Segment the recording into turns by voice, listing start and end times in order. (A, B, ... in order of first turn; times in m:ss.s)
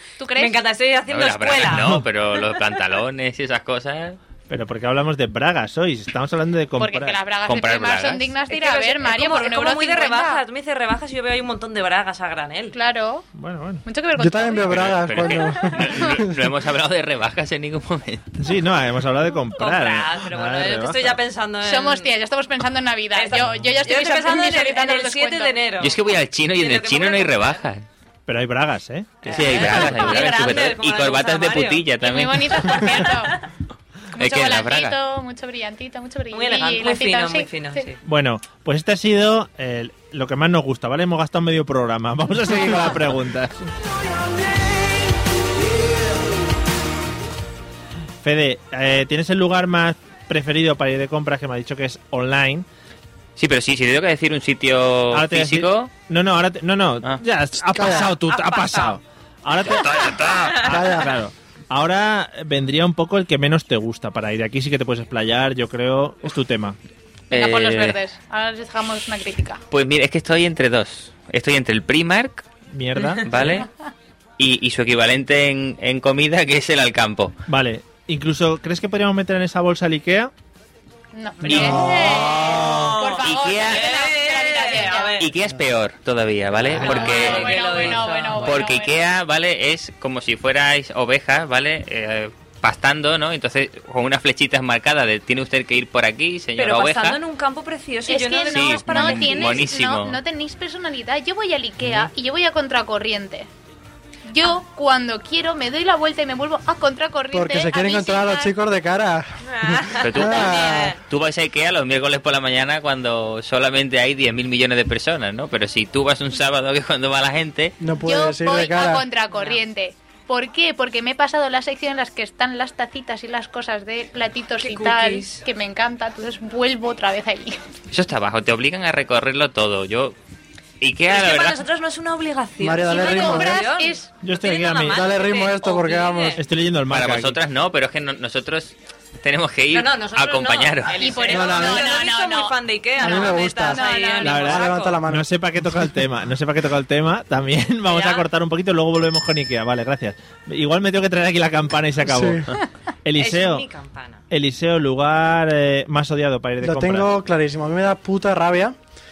0:00.2-0:00.6 A
0:00.4-0:02.0 B
0:01.1-0:04.2 C
0:01.7-0:02.0 D
0:04.5-0:07.2 D
0:06.8-0:10.4 A
0:07.4-0:08.3 C
0:08.5-0:12.8 B
0:12.7-0:13.3 A
0:13.4-0:13.8 D
0:13.8-0:15.4 A
0:14.2-0:16.5 E
0:14.7-0:18.3 C
0:18.4-0:21.2 D
0:19.6-0:22.1 B
0:21.6-0:25.6 A
0:23.1-0:27.6 B
0:25.8-0:27.8 C
0:28.3-0:30.3 D
0:29.2-0:31.9 B
0:29.2-0:32.9 C
0:32.0-0:33.4 A
0:32.7-0:33.4 B
0:34.1-0:37.9 A
0:34.2-0:35.0 C
0:36.3-0:38.0 B
0:38.0-0:43.7 D
0:48.2-0:52.7 D
0:53.4-0:55.9 C
0:55.1-1:06.8 D
0:57.7-0:58.1 E
0:58.3-0:59.0 B
0:59.6-1:00.7 C
1:00.4-1:00.6 B
1:00.7-1:01.1 E
1:07.3-1:09.6 A
1:07.3-1:08.0 C
1:09.7-1:12.5 C
1:12.7-1:13.6 D
1:13.2-1:13.7 C
1:14.4-1:17.4 C
1:17.5-1:20.3 D
1:21.1-1:25.2 A
1:21.4-1:22.6 D
1:21.5-1:24.0 C
1:22.1-1:25.3 B
1:25.2-1:37.2 C
1:26.7-1:28.6 B
1:26.8-1:29.0 A
1:36.6-1:39.6 B
1:38.1-1:43.5 A
1:38.5-1:40.2 C
1:44.3-1:48.5 A
1:47.3-1:51.0 E
1:49.4-1:51.0 B
1:50.0-1:57.8 C
1:57.8-1:59.1 E
1:58.0-2:07.6 A
1:59.3-1:59.6 B
2:04.6-2:05.4 B
2:07.9-2:10.2 C
2:10.8-2:11.6 C
2:11.1-2:16.4 B
2:12.6-2:13.6 E
2:12.9-2:14.1 A
2:14.2-2:15.0 D
2:14.9-2:16.4 E
2:16.4-2:17.4 D
2:16.9-2:21.0 C
2:19.7-2:25.0 B
2:21.0-2:24.6 A
2:21.3-2:21.9 E
2:23.0-2:25.8 E
2:24.2-2:32.5 D
2:27.9-2:28.2 B
2:32.0-2:32.5 E
2:33.0-2:33.7 D
2:33.2-2:34.2 B
2:34.3-2:37.1 D
2:36.6-2:38.8 E